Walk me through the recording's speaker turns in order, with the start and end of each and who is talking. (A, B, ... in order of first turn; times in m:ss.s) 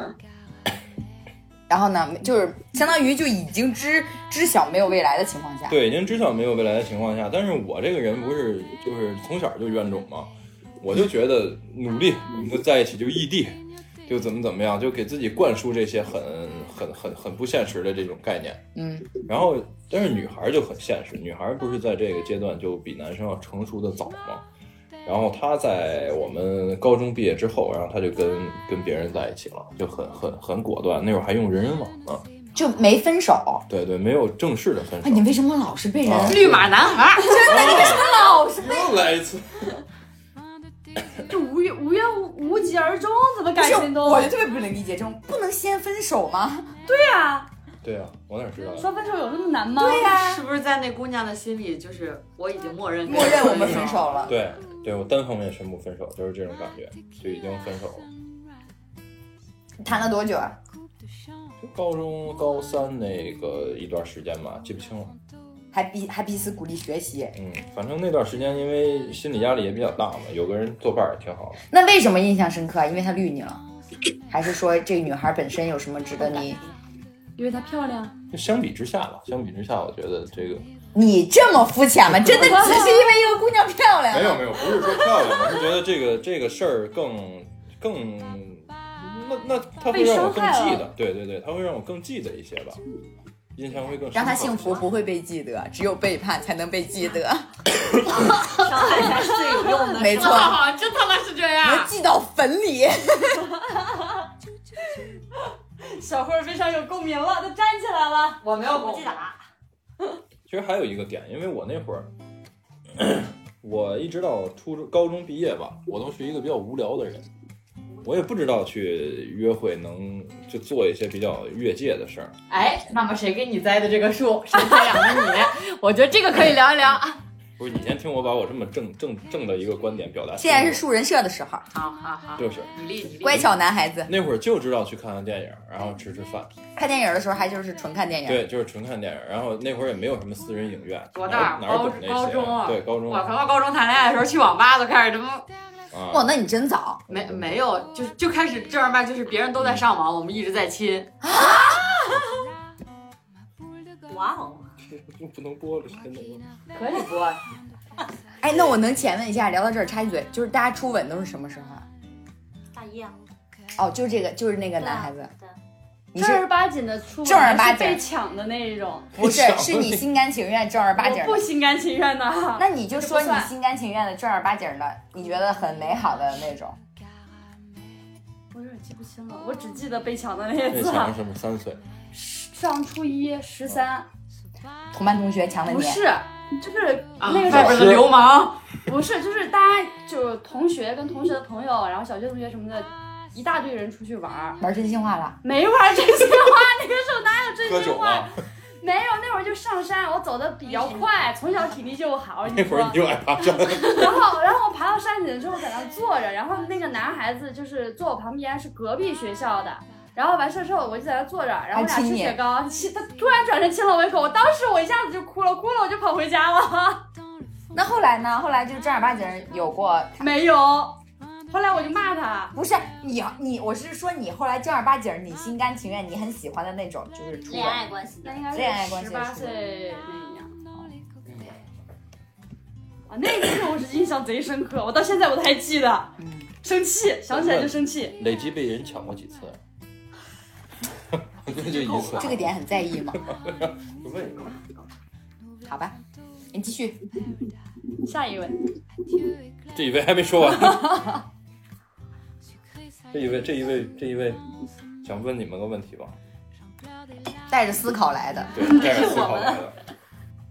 0:01.7-0:05.8 A
0:05.7-0:18.6 B
0:18.8-0:19.1 A
0:19.3-0:24.4 B
0:25.0-0:32.2 B
0:32.6-0:33.6 A
0:33.7-0:35.3 B
0:35.0-0:36.4 A
0:36.0-0:36.7 B
0:36.2-0:37.8 C
0:37.2-0:39.0 A
0:37.4-0:39.7 B
0:41.3-0:44.3 D
0:43.6-0:46.8 A
0:46.8-0:47.5 D
0:47.8-0:48.9 B
0:48.8-0:50.4 D
0:49.8-0:54.1 C
0:53.0-0:54.3 A
0:54.3-0:58.1 B
0:59.8-1:00.6 A
1:01.6-1:05.2 B
1:05.7-1:07.4 A
1:07.4-1:11.6 B
1:11.7-1:13.6 A
1:14.3-1:16.6 A
1:17.4-1:18.2 D
1:18.3-1:20.7 B
1:20.9-1:25.0 A
1:24.1-1:32.8 B
1:29.9-1:30.9 D
1:33.6-1:34.9 B
1:34.1-1:37.6 A
1:34.3-1:34.6 E
1:38.1-1:40.6 E
1:39.9-1:40.7 A
1:40.1-1:41.9 C
1:41.6-1:43.5 A
1:45.8-1:48.4 D
1:48.4-1:49.2 C
1:48.5-1:49.4 E
1:50.5-1:52.1 B
1:53.0-1:57.3 B
1:57.9-1:58.3 E
1:58.0-2:02.4 B
2:02.5-2:07.2 C
2:07.6-2:10.8 B
2:10.4-2:11.7 A
2:11.7-2:13.5 C
2:12.4-2:12.7 B
2:13.2-2:14.1 A
2:14.1-2:16.5 B
2:16.8-2:18.4 A
2:18.3-2:23.3 B
2:21.1-2:25.5 C
2:25.9-2:26.3 B
2:26.1-2:27.0 A
2:27.1-2:31.1 C
2:27.1-2:27.6 B
2:31.2-2:32.0 A
2:34.1-2:34.8 E
2:34.8-2:36.5 B
2:36.7-2:37.4 C
2:38.4-2:41.9 A
2:42.7-2:43.2 E
2:43.8-2:45.3 A
2:44.8-2:45.6 E
2:46.1-2:46.5 A
2:46.1-2:49.1 D
2:47.2-2:48.0 A
2:49.2-2:50.0 B
2:49.2-2:51.5 A
2:51.0-2:53.5 D
2:52.6-2:56.8 A
2:58.5-3:01.1 D
3:00.7-3:01.8 B
3:02.1-3:04.1 D
3:04.9-3:06.0 A
3:05.7-3:08.0 D
3:07.2-3:08.7 C
3:07.5-3:08.2 B
3:08.9-3:14.6 D
3:14.6-3:15.4 A
3:15.4-3:37.0 D
3:17.6-3:18.3 B
3:20.7-3:21.1 E
3:22.5-3:24.2 B
3:31.7-3:32.4 A
3:37.7-3:40.3 A
3:40.2-3:41.0 D
3:41.5-3:42.6 D
3:42.5-3:47.9 A
3:47.5-3:48.5 E
3:48.2-3:50.6 D
3:48.5-3:49.6 A
3:51.2-3:51.6 B
3:53.1-3:58.2 D
3:56.2-3:56.5 A
3:57.3-3:59.6 B
4:01.4-4:02.5 B
4:01.7-4:02.1 D
4:02.1-4:03.2 A
4:03.2-4:04.6 B
4:05.6-4:06.0 A
4:06.5-4:07.0 A
4:08.0-4:08.6 D
4:09.7-4:11.2 B
4:13.1-4:14.4 B
4:15.0-4:16.2 B
4:17.5-4:18.7 A
4:18.5-4:19.8 B
4:18.6-4:19.6 E